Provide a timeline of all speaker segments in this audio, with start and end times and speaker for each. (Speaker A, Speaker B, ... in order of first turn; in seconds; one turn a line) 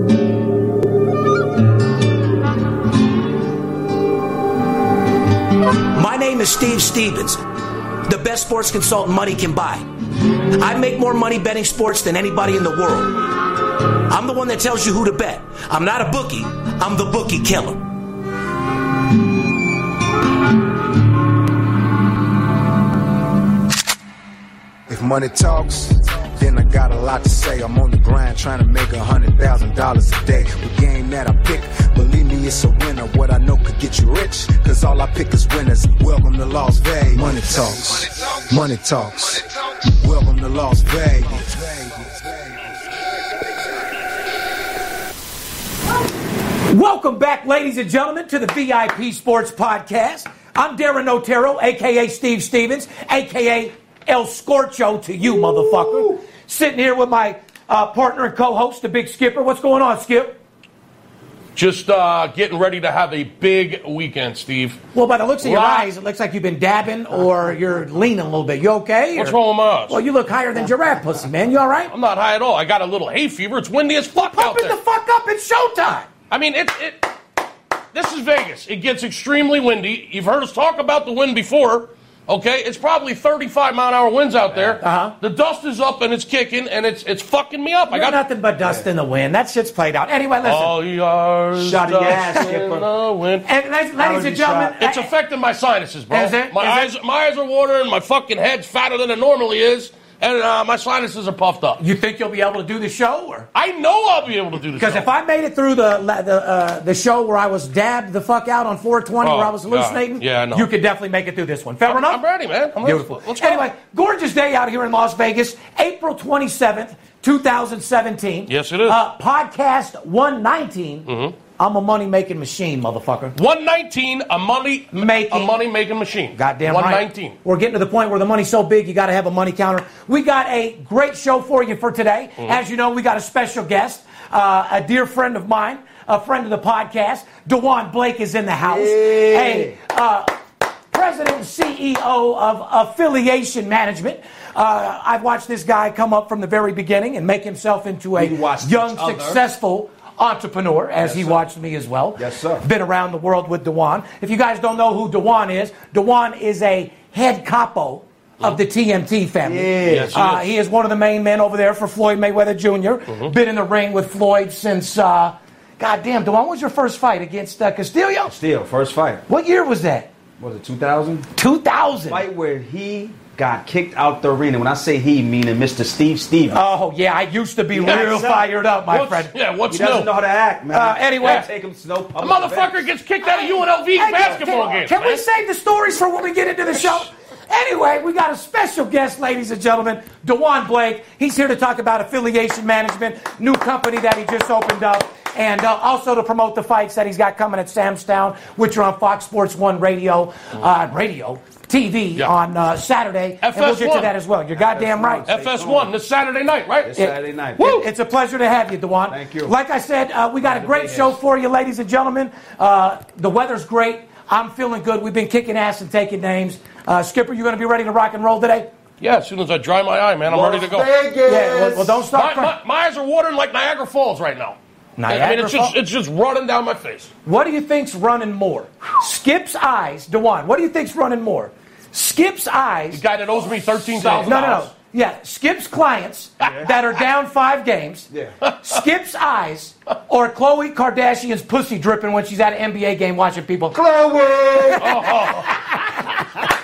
Speaker A: 5.9-7.4
Speaker A: 8.1-9.9
Speaker A: 10.6-13.2
Speaker A: 14.1-17.9
Speaker B: 24.9-42.7
Speaker A: 46.7-60.4
Speaker C: 61.6-64.8
Speaker A: 65.0-69.4
Speaker C: 65.4-65.9
Speaker C: 69.2-70.0
Speaker A: 69.9-71.9
Speaker C: 71.9-74.8
Speaker A: 74.3-76.1
Speaker C: 76.3-77.1
Speaker C: 77.9-88.2
Speaker A: 84.8-85.2
Speaker A: 87.9-90.7
Speaker C: 90.4-93.5
Speaker D: 91.6-92.9
Speaker A: 93.5-95.1
Speaker D: 94.0-94.8
Speaker C: 94.8-101.8
Speaker A: 96.1-96.9
Speaker A: 101.8-103.5
Speaker C: 103.5-105.1
Speaker A: 104.8-112.2
Speaker C: 109.2-110.7
Speaker C: 111.9-113.7
Speaker A: 112.8-123.3
Speaker C: 118.5-119.0
Speaker C: 121.1-121.3
Speaker C: 123.4-127.4
Speaker A: 124.9-125.5
Speaker A: 126.3-140.3
Speaker D: 138.7-139.8
Speaker A: 140.9-168.3
Speaker D: 148.2-149.4
Speaker D: 151.0-151.4
Speaker D: 152.2-152.6
Speaker D: 159.4-160.2
Speaker C: 159.9-160.5
Speaker D: 168.3-169.2
Speaker A: 169.3-170.1
Speaker D: 170.4-171.3
Speaker A: 171.4-172.2
Speaker D: 172.1-176.6
Speaker A: 176.5-179.3
Speaker D: 177.7-178.4
Speaker C: 177.9-178.3
Speaker C: 178.9-180.1
Speaker D: 179.7-182.9
Speaker A: 180.7-181.5
Speaker C: 182.2-185.2
Speaker A: 183.2-205.3
Speaker C: 203.4-204.1
Speaker D: 204.6-205.9
Speaker C: 205.3-207.0
Speaker D: 206.9-207.6
Speaker A: 207.0-218.7
Speaker C: 207.6-207.9
Speaker D: 209.1-209.5
Speaker D: 210.5-211.2
Speaker C: 219.0-221.0
Speaker D: 220.3-222.0
Speaker A: 221.2-222.5
Speaker C: 222.1-224.6
Speaker A: 225.0-225.7
Speaker C: 225.1-227.1
Speaker A: 227.3-233.0
Speaker C: 232.9-234.7
Speaker A: 234.0-238.1
Speaker D: 236.4-236.7
Speaker A: 238.6-243.8
Speaker D: 243.7-245.1
Speaker A: 244.7-245.4
Speaker C: 244.8-246.0